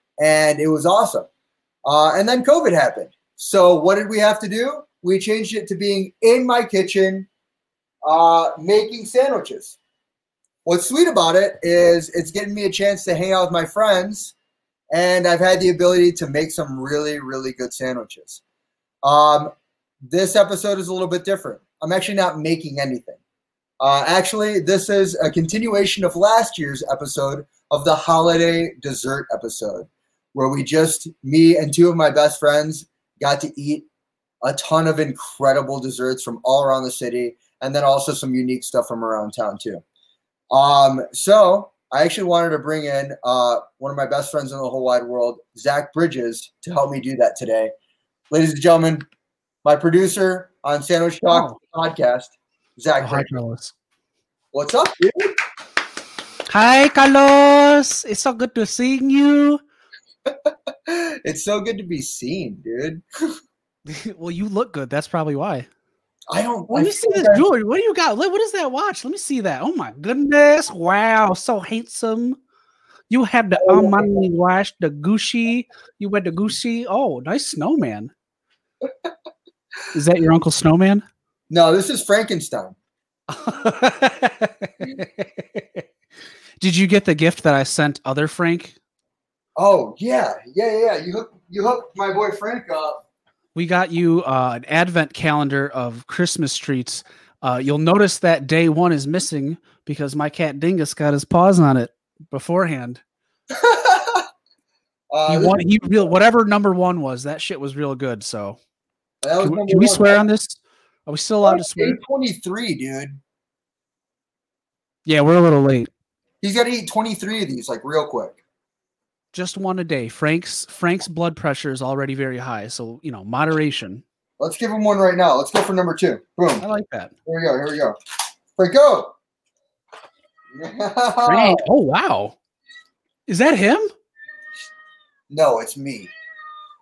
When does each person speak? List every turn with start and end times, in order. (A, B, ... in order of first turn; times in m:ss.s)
0:00.2-0:01.3 A
0:01.8-0:07.3 A
0:08.0-0:09.8 A
0:10.6-0:14.3 A
0:14.9-0:18.4 A
0:19.0-0:19.5 A
0:20.0-0:23.2 A
0:23.8-0:33.9 A
0:34.4-0:39.8 A
0:40.5-0:47.7 A
0:48.3-0:49.0 A
0:49.6-0:53.3 A
0:51.3-0:51.6 B
0:53.0-0:53.7 B
0:54.5-0:55.4 A
0:56.5-0:59.6 B
1:00.3-1:03.0 A
1:03.8-1:05.7 B
1:06.3-1:07.4 A
1:06.7-1:12.4 B
1:13.1-1:18.1 B
1:13.6-1:14.1 A
1:19.9-1:21.0 B
1:21.5-1:22.8 A
1:23.3-1:25.8 B
1:26.6-1:28.8 B
1:29.6-1:33.0 A
1:33.5-1:43.0 B
1:43.5-1:44.3 A
1:45.1-1:45.6 A
1:45.3-1:48.6 B
1:49.2-1:50.2 A
1:49.4-1:52.0 B
1:51.4-1:53.2 A
1:55.0-1:55.9 B
1:56.4-1:58.4 A
1:59.3-2:04.0 B
2:04.4-2:06.6 A
2:06.6-2:07.1 B
2:07.2-2:08.0 A
2:08.6-2:09.1 A
2:10.5-2:11.6 A
2:11.2-2:12.4 B
2:13.3-2:13.9 B
2:15.3-2:16.1 A